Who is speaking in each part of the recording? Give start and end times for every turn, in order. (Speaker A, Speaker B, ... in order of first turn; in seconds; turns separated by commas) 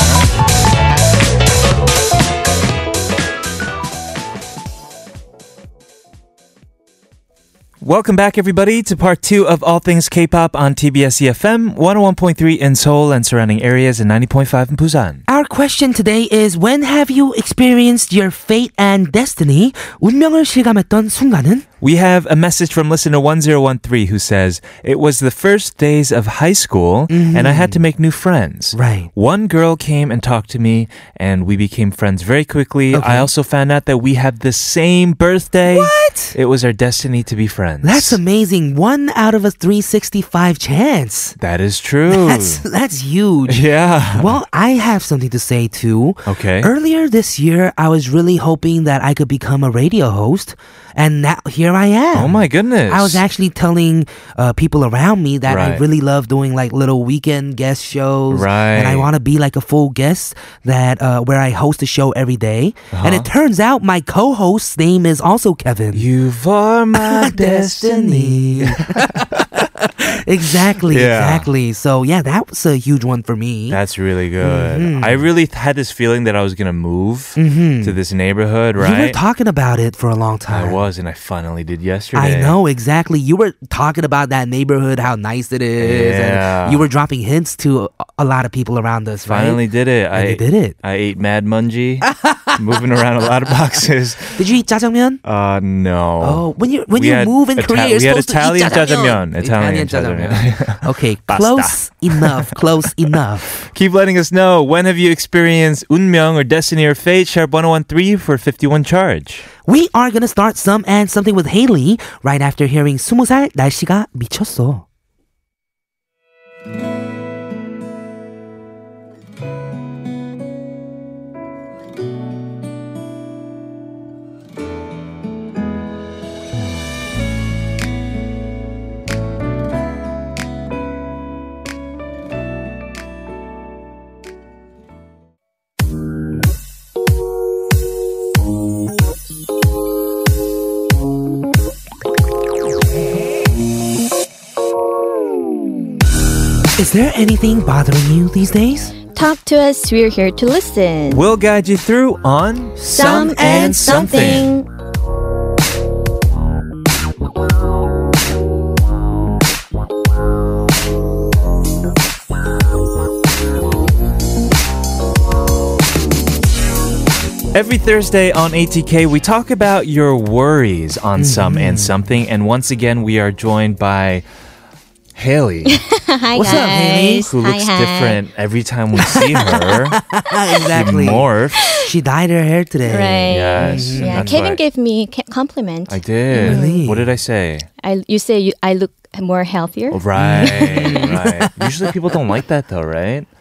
Speaker A: 7.8-15.2, Speaker B: 15.3-21.6, Speaker A: 21.8-38.2, Speaker B: 27.1-27.9, Speaker B: 28.7-29.1, Speaker B: 32.9-33.3, Speaker B: 35.7-36.4, Speaker B: 37.8-41.4, Speaker A: 41.4-42.6, Speaker B: 42.1-66.1, Speaker A: 43.5-44.3, Speaker A: 46.2-46.7, Speaker A: 52.1-53.2, Speaker A: 55.5-55.8, Speaker A: 58.3-59.1, Speaker A: 62.9-63.3, Speaker A: 65.9-69.4, Speaker B: 66.9-73.8, Speaker A: 70.9-71.5, Speaker A: 73.7-79.2, Speaker B: 74.4-75.3, Speaker B: 77.3-78.0, Speaker B: 78.8-80.8, Speaker A: 80.5-82.6, Speaker B: 82.1-89.6, Speaker A: 85.8-86.8, Speaker A: 89.2-94.4, Speaker B: 90.1-90.7, Speaker B: 92.1-92.6, Speaker B: 94.3-95.2, Speaker A: 95.2-102.6, Speaker B: 96.2-103.5, Speaker A: 103.5-109.5, Speaker B: 109.6-114.8, Speaker B: 146.8-148.9, Speaker C: 149.1-151.2, Speaker A: 151.1-154.5, Speaker B: 152.8-154.4, Speaker C: 152.9-154.7, Speaker A: 167.5-174.2, Speaker B: 171.2-172.0, Speaker A: 175.1-175.8, Speaker C: 175.7-178.2, Speaker B: 176.3-177.3, Speaker A: 177.2-180.0, Speaker B: 178.9-184.4, Speaker A: 180.7-181.8, Speaker C: 182.9-186.8, Speaker A: 183.3-184.6, Speaker A: 185.9-187.7, Speaker B: 186.4-187.1, Speaker C: 187.8-191.0, Speaker A: 189.9-193.3, Speaker B: 190.1-191.9